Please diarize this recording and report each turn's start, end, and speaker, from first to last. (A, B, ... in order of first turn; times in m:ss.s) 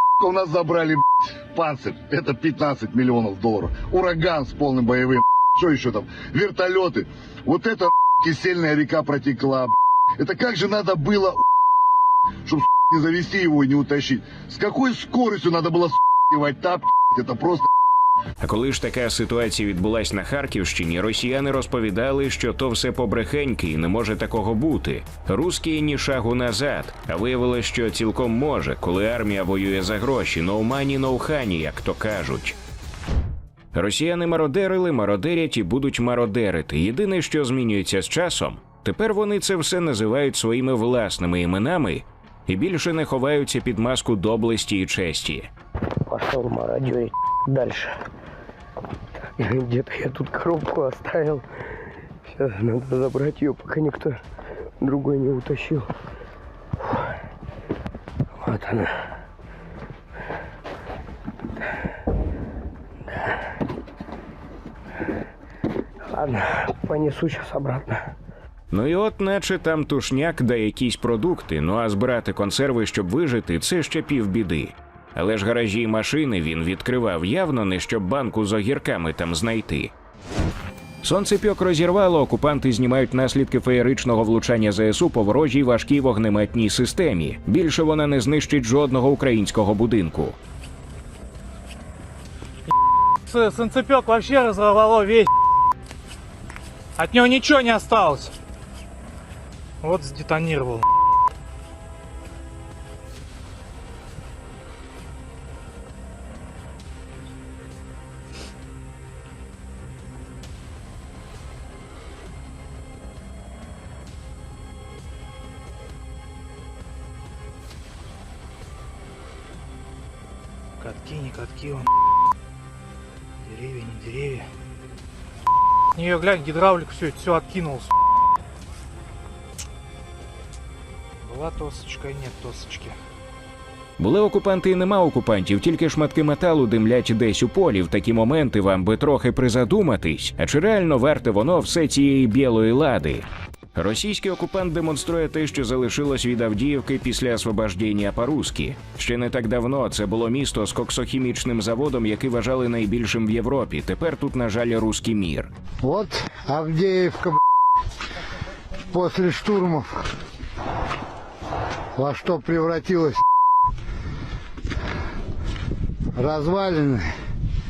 0:00.2-0:11.4 A
0:12.4-0:17.7 A
0:18.4-0:32.6 B
0:33.7-0:45.5 B
0:46.1-0:48.0 C
0:49.4-0:51.4 C
0:52.3-0:54.2 C
0:54.8-0:55.9 C
0:58.4-0:59.0 C
1:06.1-1:08.1 C
1:08.7-1:19.9 B
1:21.0-1:30.4 B
1:33.3-1:35.3 D
1:37.0-1:38.3 D
1:39.8-1:40.8 D
2:00.8-2:01.9 D
2:03.5-2:04.5 D
2:06.0-2:07.9 D
2:11.3-2:13.0 D
2:14.0-2:35.5 B
2:35.8-2:37.4 E
2:38.9-2:39.9 E
2:42.0-2:43.2 E
2:46.2-2:47.0 E